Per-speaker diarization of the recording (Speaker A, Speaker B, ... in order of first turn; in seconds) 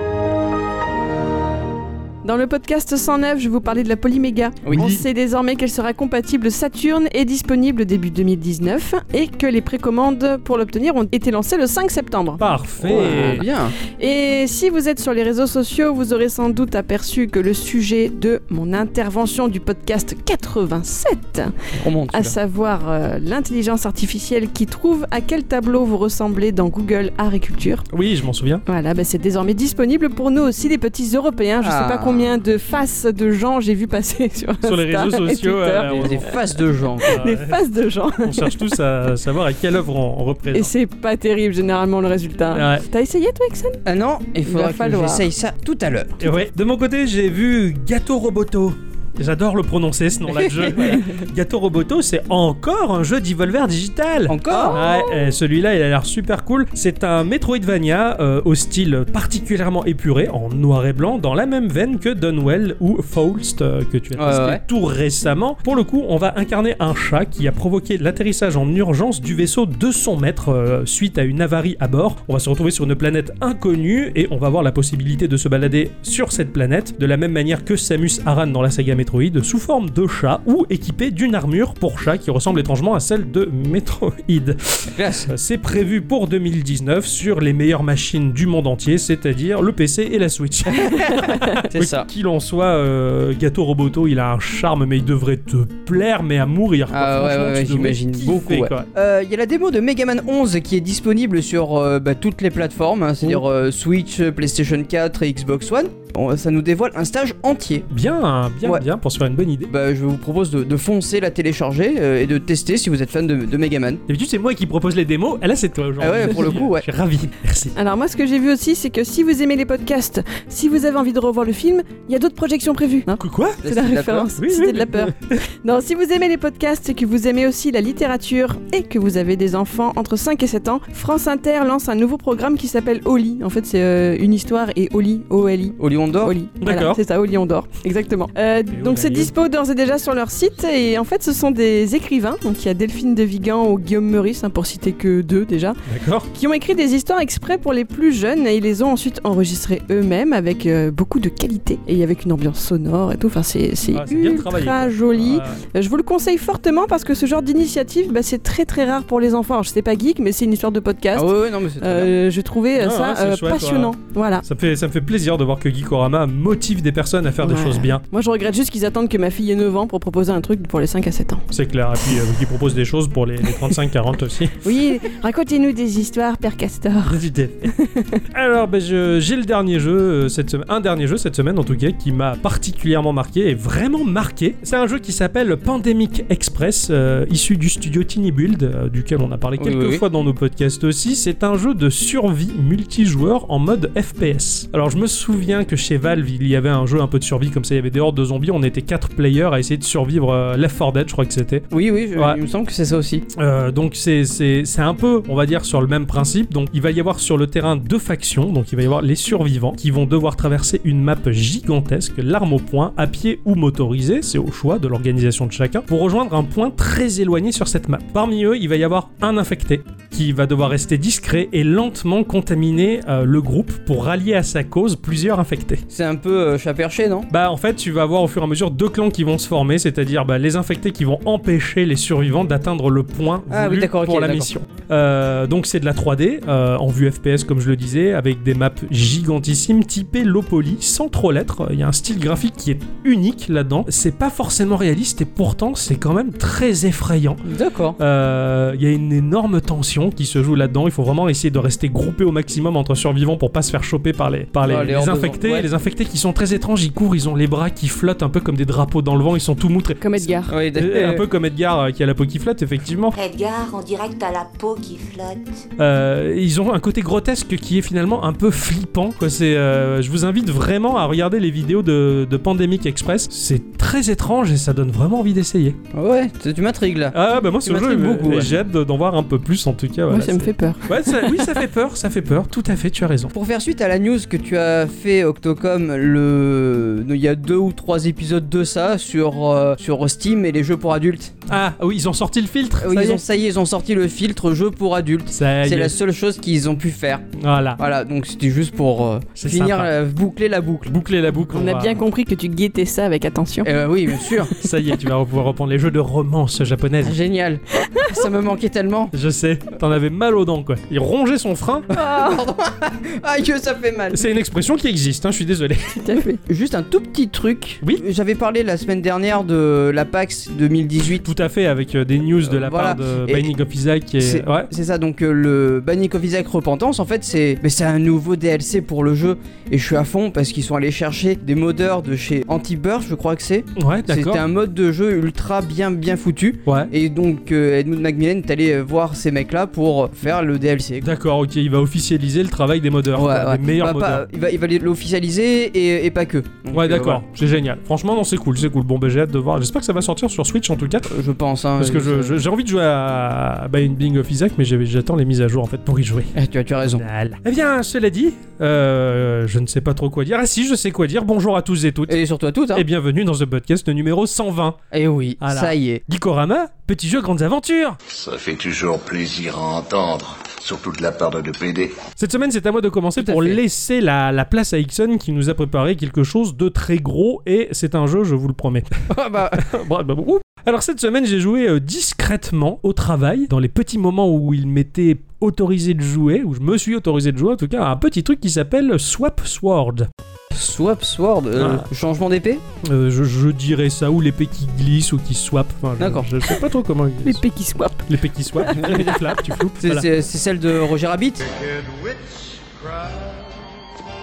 Speaker A: 2.2-21.5, 22.1-27.8, 28.6-36.3, 37.1-38.6, 40.5-43.8, 44.4-45.2, 54.5-55.3, 117.8-145.8, 146.3-164.4, 167.4-171.4, 174.6-177.2, 177.7-178.2, 260.0-260.5, 280.1-281.6, 301.5-303.7, 311.9-312.5, 316.0-316.4, 397.2-398.1, 398.6-399.2
Speaker B: 4.7-5.0, 12.4-13.5, 27.9-28.6, 34.6-36.4, 37.1-40.7, 42.5-42.8, 46.2-98.9, 107.9-109.7, 114.1-117.7, 123.2-123.6, 124.4-125.4, 136.6-137.0, 138.7-139.3, 145.8-146.3, 153.9-155.6, 162.8-168.0, 171.5-174.6, 177.0-177.7, 178.3-202.4, 203.3-225.8, 227.3-247.4, 248.0-263.1, 265.8-275.8, 277.1-283.3, 291.5-293.2, 295.3-295.9, 297.4-297.8, 299.4-299.9, 300.9-302.0, 304.6-307.2, 309.1-311.9, 314.1-316.0, 321.0-324.7, 333.8-334.4, 336.6-336.9, 341.0-344.2, 346.7-351.1, 351.8-356.3, 356.9-362.2, 362.7-364.8, 365.4-368.0, 372.2-378.9, 379.5-390.1, 391.6-391.9, 392.8-397.4, 398.1-400.1
Speaker C: 12.8-13.7, 21.8-22.3, 31.6-32.3, 35.8-37.2, 43.8-46.2, 50.3-51.0, 54.3-54.8, 64.2-64.6, 84.9-85.3, 90.8-92.1, 96.9-107.9, 109.7-114.0, 116.0-116.8, 123.6-124.3, 135.8-136.3, 161.1-162.1, 189.6-190.0, 201.7-203.2, 225.9-227.3, 233.5-234.5, 247.4-248.0, 254.6-255.7, 260.5-261.2, 275.9-278.5, 283.3-291.4, 292.8-297.2, 297.8-301.0, 303.6-304.5, 307.0-309.1, 311.9-314.2, 316.4-321.3, 322.4-323.5, 324.2-341.1, 343.1-347.2, 351.1-352.4, 356.3-357.0, 362.1-362.9, 364.9-366.0, 373.2-373.6, 379.1-379.7, 390.5-392.6, 396.0-396.3, 398.7-399.1, 399.8-401.4
Speaker D: 263.1-265.6
Speaker E: 368.1-372.0
Speaker F: 401.4-403.8